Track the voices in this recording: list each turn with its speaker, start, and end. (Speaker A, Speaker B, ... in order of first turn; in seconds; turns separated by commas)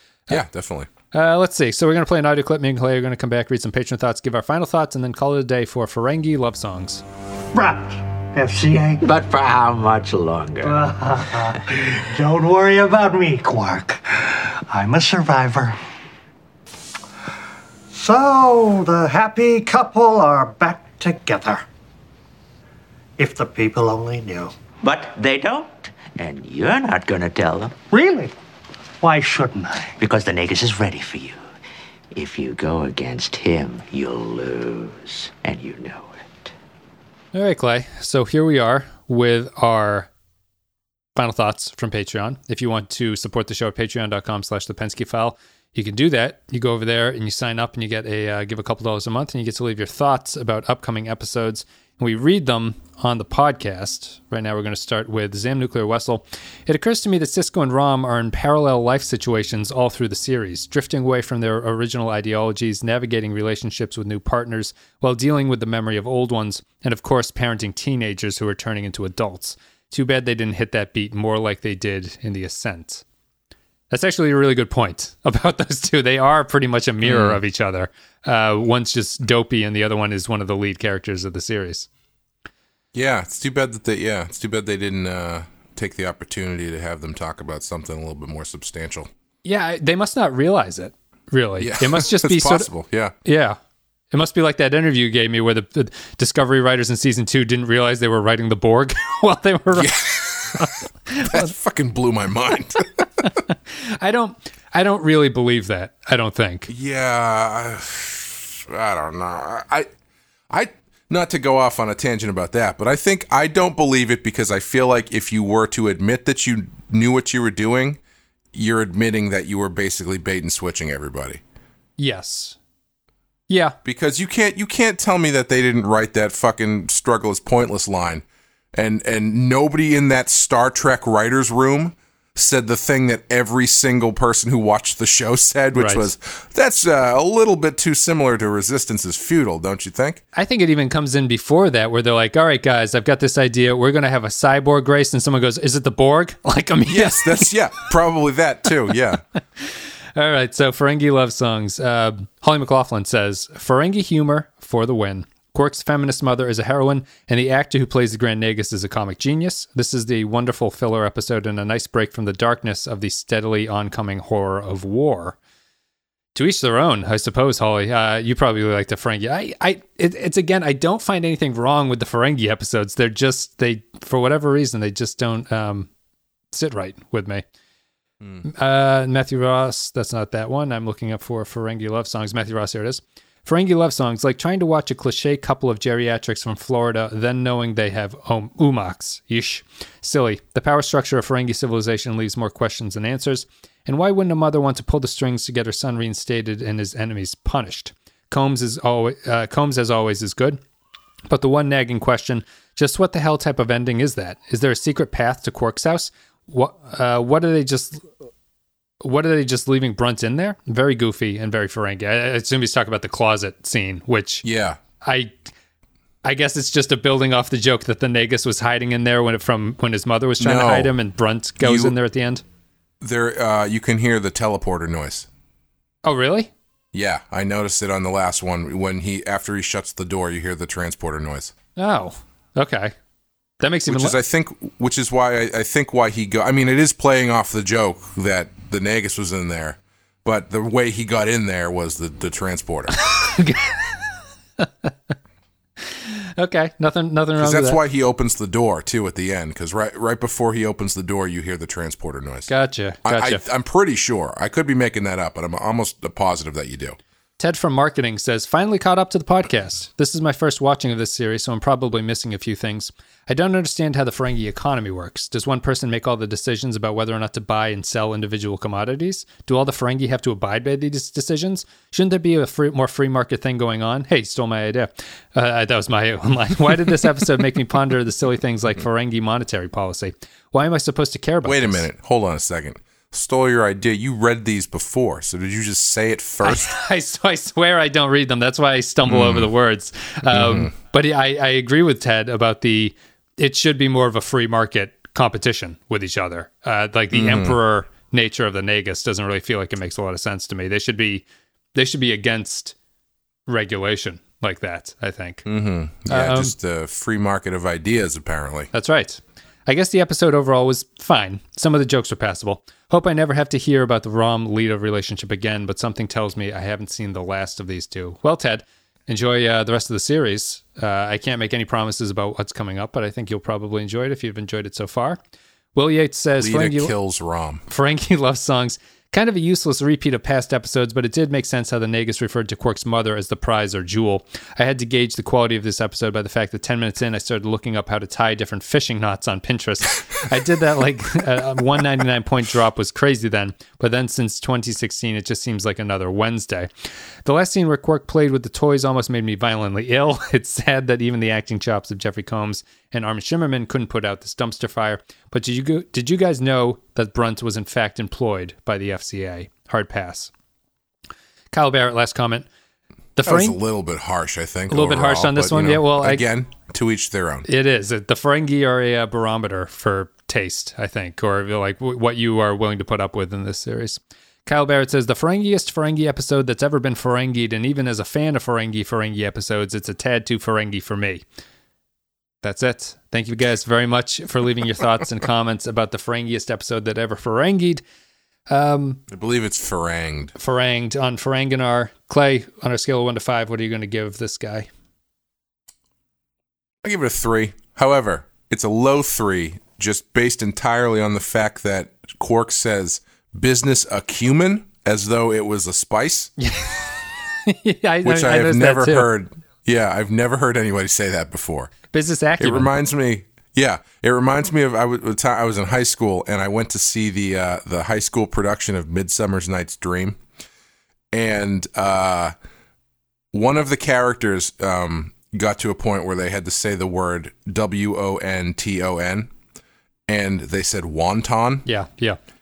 Speaker A: 0.3-0.9, Speaker B: 1.1-7.0, Speaker C: 7.5-9.0, Speaker D: 9.0-11.0, Speaker C: 10.6-15.8, Speaker C: 17.9-21.6, Speaker C: 23.2-24.6, Speaker D: 24.8-27.7, Speaker C: 27.9-28.3, Speaker C: 29.0-29.9, Speaker D: 30.0-31.4, Speaker D: 32.1-36.5, Speaker B: 37.3-40.1, Speaker B: 41.2-73.0, Speaker B: 73.9-81.9, Speaker A: 77.0-77.4, Speaker A: 82.9-89.1, Speaker B: 89.5-92.7, Speaker A: 91.6-93.2, Speaker B: 93.2-93.6, Speaker B: 94.1-101.5, Speaker A: 99.7-100.7, Speaker A: 101.2-103.4, Speaker B: 103.7-106.7, Speaker A: 106.7-109.9, Speaker A: 110.5-118.0, Speaker A: 118.5-121.4, Speaker B: 122.0-122.6, Speaker B: 123.5-123.8, Speaker A: 123.8-140.2, Speaker B: 135.8-136.1, Speaker B: 140.3-147.5, Speaker A: 146.9-149.2, Speaker B: 149.6-165.4, Speaker B: 166.3-175.9, Speaker B: 176.5-177.4, Speaker B: 178.4-200.6, Speaker B: 201.3-208.1, Speaker B: 209.0-214.4, Speaker A: 214.4-214.8, Speaker B: 215.0-215.5, Speaker B: 216.2-222.4, Speaker A: 220.4-221.0, Speaker A: 221.6-221.9, Speaker A: 223.0-225.3, Speaker B: 226.0-226.5, Speaker A: 226.9-231.5, Speaker B: 231.8-232.9, Speaker B: 233.6-234.2, Speaker A: 233.9-243.0, Speaker B: 243.0-244.9, Speaker B: 245.8-247.8, Speaker A: 247.4-252.5, Speaker B: 252.5-253.4, Speaker A: 253.0-257.0, Speaker B: 257.4-281.9, Speaker A: 281.4-286.7, Speaker B: 286.4-302.8, Speaker A: 289.0-289.5, Speaker A: 290.3-290.7, Speaker A: 297.1-297.6, Speaker B: 303.5-305.4, Speaker A: 305.4-308.7, Speaker B: 306.1-306.5, Speaker B: 308.7-325.2, Speaker B: 325.8-326.9, Speaker A: 326.4-327.6, Speaker B: 327.7-346.7, Speaker B: 347.2-360.3, Speaker B: 361.5-362.5, Speaker B: 363.2-363.6, Speaker A: 363.2-367.5, Speaker B: 364.7-366.2, Speaker B: 367.5-381.2, Speaker B: 382.4-387.8, Speaker B: 388.5-389.0, Speaker A: 389.1-390.3, Speaker B: 390.4-394.7, Speaker A: 396.8-406.3, Speaker B: 406.4-409.1, Speaker A: 408.0-411.7, Speaker B: 411.9-412.7, Speaker A: 412.4-420.2, Speaker A: 421.1-422.4, Speaker A: 423.3-429.3, Speaker A: 430.1-431.7, Speaker B: 431.7-432.2